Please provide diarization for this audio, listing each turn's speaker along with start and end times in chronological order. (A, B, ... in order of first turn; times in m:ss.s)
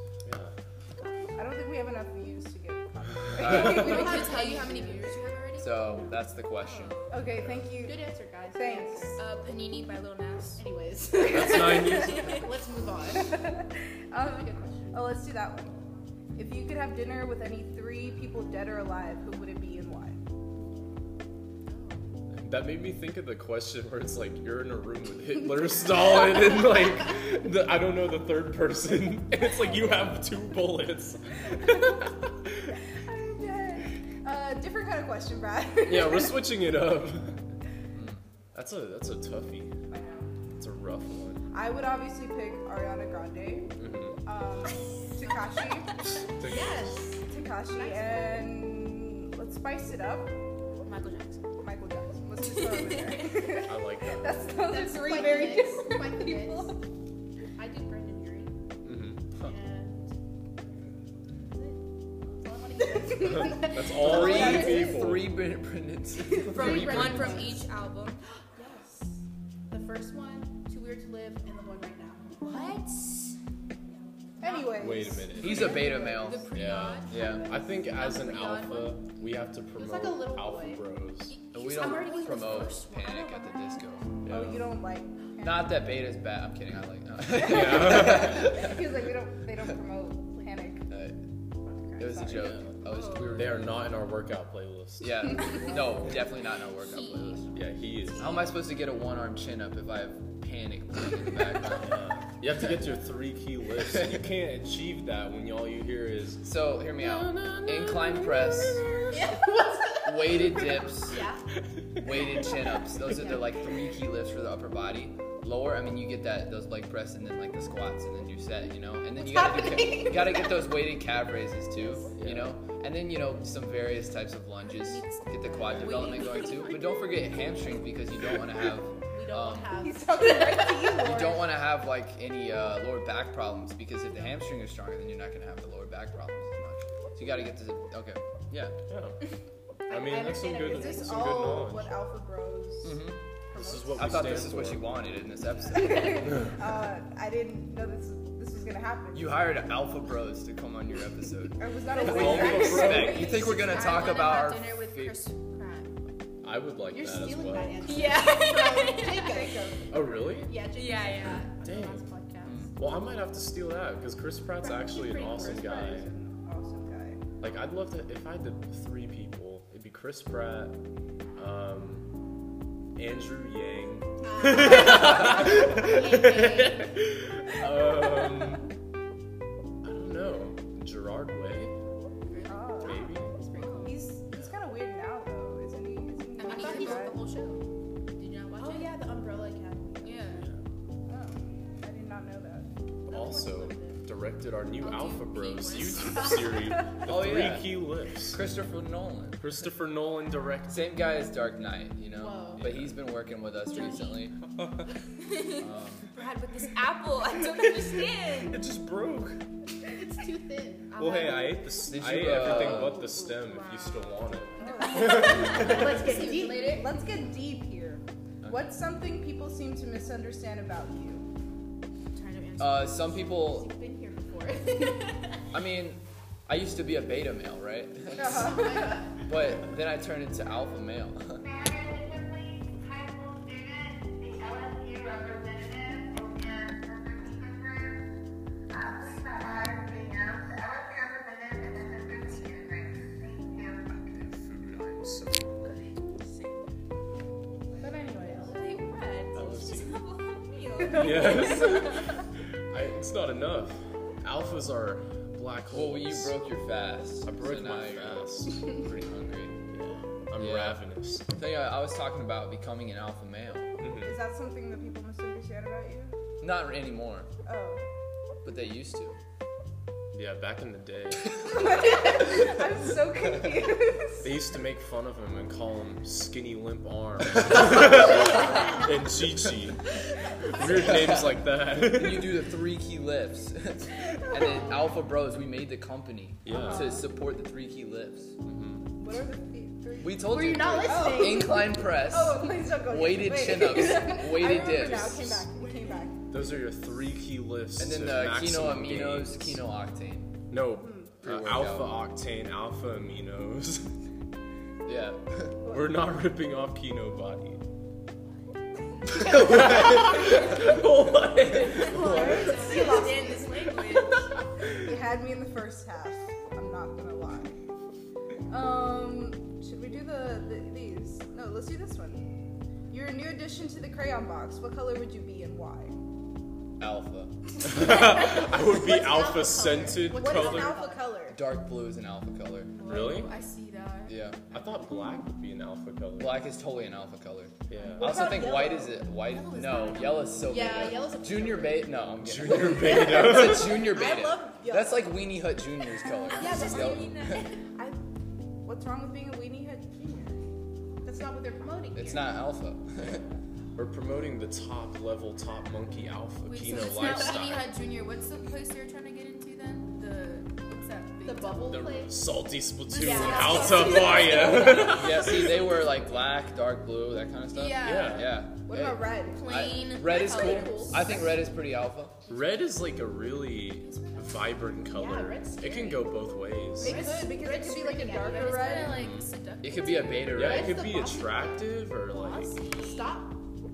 0:00.2-0:00.5 A
0:00.9-0:01.3 B
0:01.3-0:05.1 C
0:03.4-0:04.1 D
0:03.4-0:05.4 B
0:03.7-0:07.2 E
0:05.6-0:07.1 D
0:07.1-0:09.2 C
0:07.8-0:09.1 B
0:09.2-0:10.6 E
0:10.6-0:13.4 B
0:11.3-0:12.3 A
0:11.6-0:12.2 C
0:12.0-0:12.4 E
0:13.2-0:15.8 C
0:14.3-0:15.0 B
0:16.3-0:20.2 C
0:21.7-0:22.1 B
0:22.3-0:32.8 A
0:25.4-0:26.3 C
0:31.6-0:32.0 C
0:32.7-0:36.4 C
0:35.8-0:37.4 A
0:37.9-0:38.2 D
0:38.5-0:39.7 A
0:39.9-0:40.3 C
0:40.6-0:41.4 A
0:41.5-0:45.9 C
0:43.8-0:44.2 A
0:45.2-0:45.5 B
0:46.4-0:46.9 A
0:46.4-0:48.6 B
0:47.3-0:50.3 C
0:50.8-0:51.4 B
0:51.6-0:56.8 C
0:53.0-0:53.3 B
0:53.6-0:54.3 A
0:54.6-0:56.8 B
0:57.6-0:58.6 B
0:58.8-0:59.2 A
0:59.4-1:00.1 B
1:01.4-1:01.8 B
1:02.3-1:04.5 B
1:03.2-1:05.3 A
1:03.9-1:05.1 C
1:04.0-1:07.2 D
1:06.2-1:07.6 B
1:06.5-1:08.2 E
1:06.6-1:07.4 A
1:08.5-1:12.4 B
1:12.4-1:13.4 E
1:14.4-1:14.7 E
1:14.4-1:16.4 C
1:14.7-1:15.8 A
1:15.4-1:16.5 D
1:15.6-1:19.0 E
1:16.5-1:21.4 A
1:16.7-1:17.5 B
1:17.1-1:17.5 D
1:19.8-1:23.7 B
1:21.5-1:24.0 D
1:21.7-1:23.6 E
1:24.2-1:24.7 A
1:24.3-1:25.8 C
1:25.4-1:28.8 D
1:27.3-1:30.9 C
1:27.4-1:28.2 A
1:30.9-1:31.2 D
1:31.6-1:32.6 C
1:32.0-1:33.7 D
1:32.3-1:32.6 A
1:32.8-1:33.3 E
1:33.3-1:35.3 A
1:35.0-1:37.5 D
1:36.8-1:37.5 E
1:37.5-1:38.4 A
1:38.2-1:41.9 D
1:41.8-1:49.4 A
1:43.9-1:44.2 D
1:46.4-1:48.8 D
1:49.1-1:51.4 B
1:50.0-1:51.2 D
1:51.7-1:52.1 A
1:52.0-2:09.7 D
1:52.0-1:53.8 B
1:59.2-2:00.6 B
2:02.1-2:02.6 A
2:04.6-2:11.0 B
2:09.8-2:11.5 C
2:11.0-2:18.8 D
2:18.9-2:19.2 A
2:19.9-2:21.0 B
2:19.9-2:21.9 A
2:20.7-2:24.3 C
2:22.8-2:23.2 D
2:23.5-2:24.8 A
2:23.9-2:26.3 D
2:25.7-2:29.4 C
2:29.1-2:35.3 D
2:31.6-2:33.4 C
2:32.0-2:33.5 A
2:32.2-2:34.4 B
2:33.6-2:35.9 E
2:35.5-2:35.9 B
2:36.4-2:37.9 A
2:36.9-2:39.7 B
2:37.9-2:39.2 E
2:39.1-2:39.9 C
2:39.9-2:40.6 A
2:40.4-2:42.7 B
2:40.7-2:41.5 E
2:41.6-2:42.1 A
2:42.4-2:42.7 D
2:42.8-2:46.1 A
2:44.6-2:45.8 B
2:45.2-2:47.2 C
2:47.4-2:50.8 A
2:51.4-2:52.1 A
2:53.0-2:58.7 A
2:54.2-2:56.9 B
2:57.8-2:58.3 C
2:59.8-3:01.7 A
3:02.3-3:04.1 B
3:02.5-3:03.1 C
3:02.8-3:03.3 A
3:03.5-3:04.0 E
3:03.8-3:07.2 C
3:06.4-3:07.6 E
3:06.5-3:07.1 B
3:08.2-3:09.0 E
3:08.6-3:10.5 B
3:10.0-3:10.4 E
3:11.0-3:12.7 C
3:13.1-3:18.4 A
3:13.1-3:14.0 B
3:14.8-3:16.3 E
3:16.1-3:16.8 B
3:17.1-3:19.4 D
3:19.4-3:20.9 A
3:20.7-3:24.3 D
3:22.1-3:22.8 B
3:23.7-3:24.2 B
3:24.6-3:24.9 A
3:25.3-3:28.6 E
3:25.6-3:26.1 D
3:27.5-3:29.4 A
3:29.9-3:31.8 B
3:31.0-3:35.8 A
3:31.8-3:33.0 D
3:32.3-3:33.4 B
3:33.4-3:34.2 E
3:34.6-3:41.2 C
3:34.6-3:36.9 B
3:35.5-3:37.0 E
3:38.4-3:38.7 D
3:42.1-3:45.4 B
3:42.6-3:43.7 D
3:45.5-3:48.5 D
3:48.2-3:49.0 C
3:48.3-3:49.2 B
3:49.2-3:51.5 D
3:58.7-3:59.7 B
4:01.6-4:02.6 B
4:03.9-4:05.7 A
4:05.8-4:06.6 B
4:07.8-4:08.6 C
4:08.2-4:08.6 B
4:08.5-4:12.2 E
4:09.3-4:10.0 A
4:10.9-4:12.1 A
4:12.7-4:16.4 A
4:15.7-4:19.6 D
4:17.2-4:18.7 A
4:19.7-4:21.3 A
4:20.4-4:23.7 D
4:23.8-4:24.2 A
4:24.0-4:26.1 C
4:26.4-4:27.3 D
4:27.4-4:27.8 C
4:28.4-4:29.2 D
4:30.1-4:31.3 A
4:31.4-4:34.4 C
4:34.2-4:39.9 A
4:40.4-4:41.0 B
4:40.5-4:42.4 A
4:40.8-4:48.4 D
4:44.4-4:44.9 B
4:46.4-4:46.9 A
4:46.5-4:47.1 C
4:48.4-4:48.9 A
4:49.0-4:50.3 C
4:50.0-4:55.3 D
4:50.2-4:51.8 B
4:50.8-4:56.3 C
4:55.3-4:56.1 B
4:56.3-4:59.6 A
4:57.8-5:00.3 D
5:00.5-5:03.9 A
5:00.8-5:01.1 C
5:01.2-5:02.1 D
5:04.8-5:05.6 D
5:05.6-5:06.0 C
5:05.6-5:07.6 A
5:09.1-5:12.5 A
5:11.8-5:14.1 E
5:11.9-5:14.2 B
5:11.9-5:13.8 C
5:13.9-5:14.1 A
5:14.7-5:17.6 C
5:18.5-5:22.3 C
5:22.9-5:26.0 C
5:26.8-5:27.3 D
5:27.6-5:30.8 A
5:27.8-5:31.2 B
5:30.1-5:31.4 C
5:31.3-5:32.8 D
5:32.7-5:34.1 B
5:32.8-5:33.3 A
5:33.1-5:33.9 E
5:34.1-5:34.5 D
5:34.5-5:36.4 A
5:36.2-5:47.4 D
5:37.7-5:38.3 A
5:37.8-5:45.2 B
5:38.0-5:38.9 C
5:42.2-5:43.9 A
5:46.3-5:47.4 E
5:46.4-5:47.5 B
5:46.8-5:48.0 C
5:48.6-5:50.4 C
5:51.0-5:52.4 B
5:51.9-5:53.2 D
5:53.8-5:57.8 A
5:56.4-6:01.9 E
5:56.7-5:57.4 B
6:01.2-6:02.2 B
6:01.7-6:05.6 A
6:02.9-6:05.2 B
6:04.6-6:05.0 E
6:04.7-6:12.2 D
6:07.5-6:08.0 E
6:07.8-6:08.4 A
6:07.9-6:08.3 B
6:08.7-6:09.5 C
6:09.2-6:11.1 E
6:10.0-6:11.4 B
6:12.3-6:17.1 A
6:14.9-6:16.2 B
6:16.8-6:23.4 B
6:16.8-6:19.0 C
6:18.8-6:19.3 A
6:19.6-6:20.8 D
6:20.3-6:22.6 A
6:22.4-6:23.0 E